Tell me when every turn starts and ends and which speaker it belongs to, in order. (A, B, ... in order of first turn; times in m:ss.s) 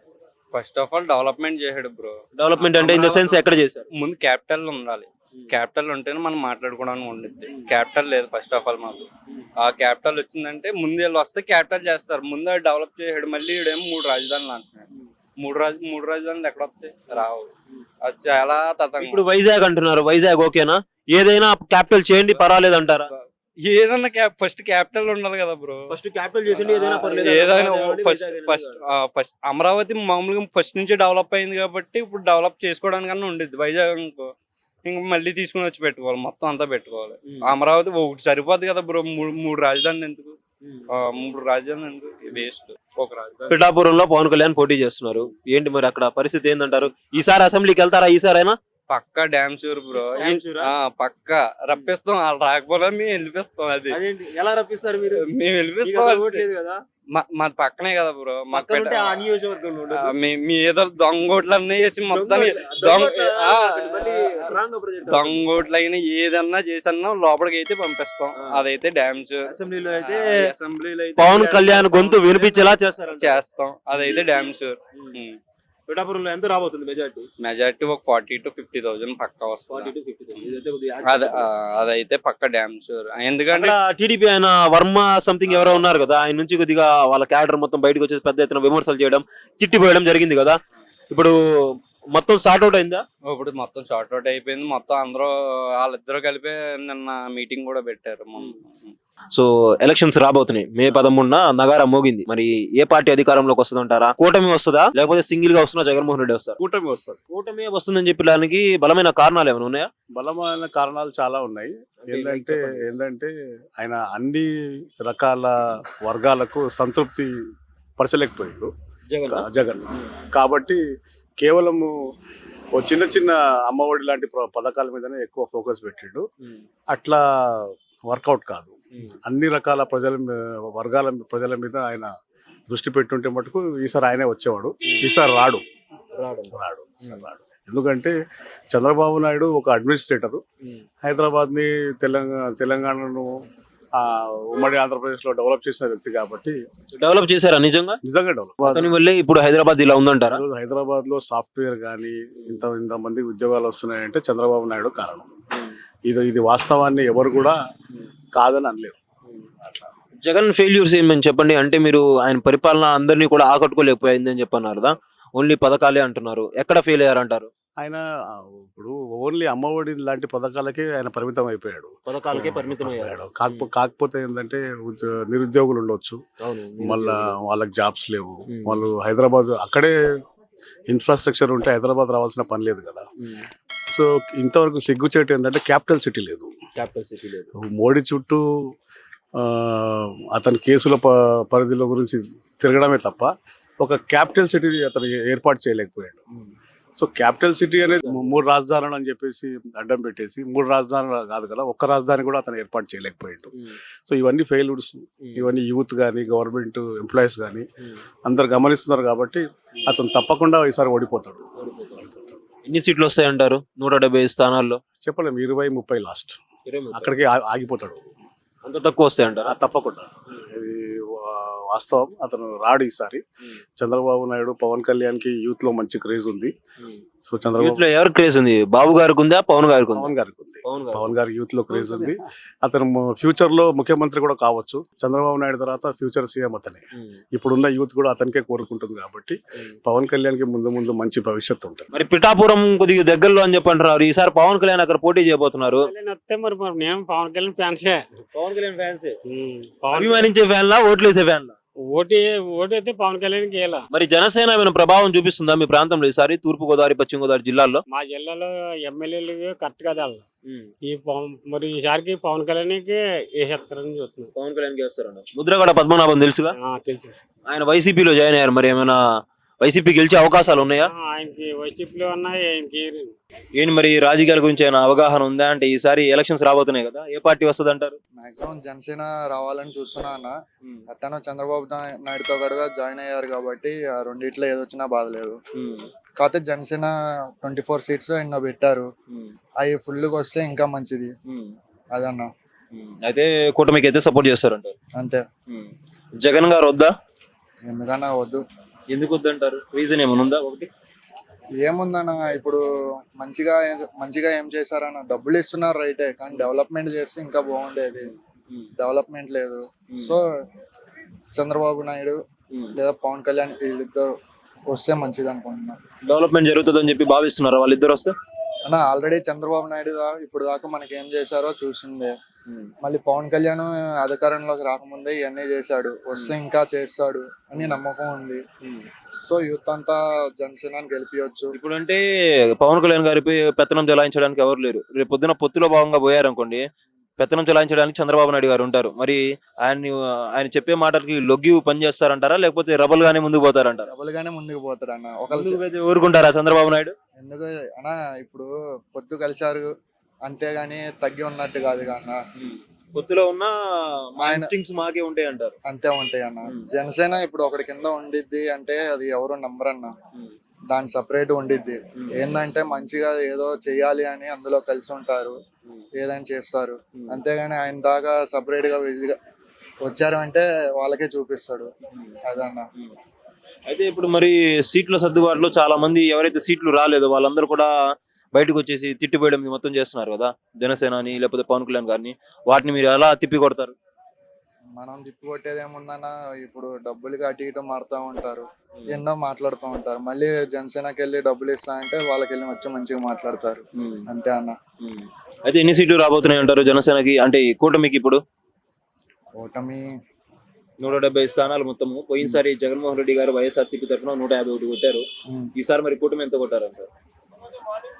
0:00.5-0:09.1 A
0:02.4-0:03.8 B
0:09.6-0:14.8 A
0:15.4-0:17.5 A
0:17.1-0:17.8 B
0:18.0-0:19.2 A
0:19.0-0:23.1 B
0:23.1-0:25.9 A
0:25.9-0:28.8 B
0:26.5-0:34.3 A
0:34.8-0:40.4 A
0:37.3-0:37.5 B
0:40.9-0:43.6 A
0:43.5-0:48.6 B
0:48.9-0:54.0 A
0:49.9-0:50.7 B
0:53.9-0:55.2 B
0:55.1-0:56.4 A
0:55.8-0:56.8 B
0:57.1-0:59.3 A
0:58.5-1:00.1 B
0:59.9-1:15.4 A
1:02.1-1:05.4 B
1:08.4-1:08.6 B
1:09.4-1:10.4 B
1:11.2-1:13.4 B
1:13.9-1:14.4 B
1:15.9-1:17.3 B
1:17.4-1:19.9 A
1:19.7-1:21.4 B
1:21.0-1:23.8 A
1:23.5-1:30.6 B
1:25.5-1:25.8 A
1:31.1-1:33.0 B
1:33.3-1:38.9 A
1:39.3-1:46.6 B
1:46.6-1:47.2 C
1:47.3-1:49.9 B
1:50.2-1:57.3 C
1:52.1-1:52.9 B
1:58.0-1:58.7 C
1:59.1-2:00.0 B
1:59.3-2:00.8 C
2:01.4-2:02.0 C
2:02.7-2:06.3 C
2:06.9-2:12.1 C
2:12.7-2:15.6 C
2:16.2-2:17.2 B
2:16.5-2:18.1 C
2:18.7-2:20.4 C
2:21.0-2:23.3 C
2:24.0-2:26.6 C
2:26.9-2:28.0 B
2:28.0-2:28.9 C
2:28.6-2:30.4 B
2:30.3-2:35.3 C
2:36.1-2:37.6 C
2:38.4-2:39.9 C
2:40.2-2:47.5 B
2:47.8-2:56.2 C
2:52.1-2:53.7 B
2:56.4-2:57.3 B
2:56.8-2:59.9 C
2:58.5-2:58.8 B
3:00.9-3:03.1 C
3:03.9-3:06.5 C
3:06.8-3:07.5 B
3:07.6-3:08.7 C
3:09.4-3:16.2 C
3:17.0-3:23.5 C
3:18.0-3:18.4 B
3:24.1-3:27.7 C
3:25.2-3:25.5 B
3:28.2-3:32.4 C
3:32.6-3:34.8 B
3:35.0-3:36.4 C
3:36.6-3:37.2 B
3:36.9-3:38.1 C
3:38.6-3:39.5 B
3:39.4-3:43.2 C
3:43.8-3:46.5 C
3:47.3-3:47.8 C
3:47.6-3:50.1 B
3:49.9-4:01.9 C
3:50.6-3:51.1 B
4:01.9-4:05.9 B
4:05.8-4:08.0 D
4:08.3-4:09.2 B
4:09.3-4:10.3 D
4:09.9-4:11.6 B
4:11.9-4:13.8 D
4:13.9-4:17.8 B
4:17.9-4:20.2 D
4:20.9-4:24.3 D
4:24.4-4:26.5 B
4:26.6-4:27.2 D
4:27.5-4:29.0 B
4:29.6-4:30.9 B
4:30.8-4:33.1 D
4:33.6-4:38.0 B
4:38.2-4:40.3 E
4:40.9-4:45.4 E
4:45.6-4:45.9 B
4:46.2-4:48.9 E
4:49.6-4:51.1 E
4:51.3-4:51.5 B
4:51.9-4:52.3 E
4:52.7-4:54.7 B
4:55.0-4:55.2 E
4:55.5-4:56.9 B
4:57.6-4:58.4 E
4:58.9-5:00.7 B
5:01.6-5:02.6 E
5:03.2-5:08.1 E
5:08.8-5:10.2 E
5:11.4-5:12.2 E
5:12.8-5:14.1 E
5:14.7-5:15.8 E
5:16.1-5:18.1 B
5:18.6-5:22.1 E
5:22.8-5:28.4 E
5:29.3-5:31.6 E
5:31.5-5:32.0 B
5:32.5-5:36.6 B
5:37.2-5:43.9 B
5:43.9-5:45.6 E
5:45.3-5:46.9 B
5:47.2-5:49.7 E
5:50.2-5:52.2 E
5:52.4-5:55.6 B
5:54.2-5:54.5 E
5:55.6-5:59.9 E
6:00.7-6:05.4 E
6:05.9-6:09.2 E
6:09.8-6:11.7 E
6:12.3-6:12.6 E
6:13.7-6:17.7 B
6:18.3-6:23.7 B
6:24.8-6:34.6 E
6:33.8-6:34.0 B
6:34.8-6:38.2 B
6:39.4-6:39.9 E
6:40.8-6:46.9 B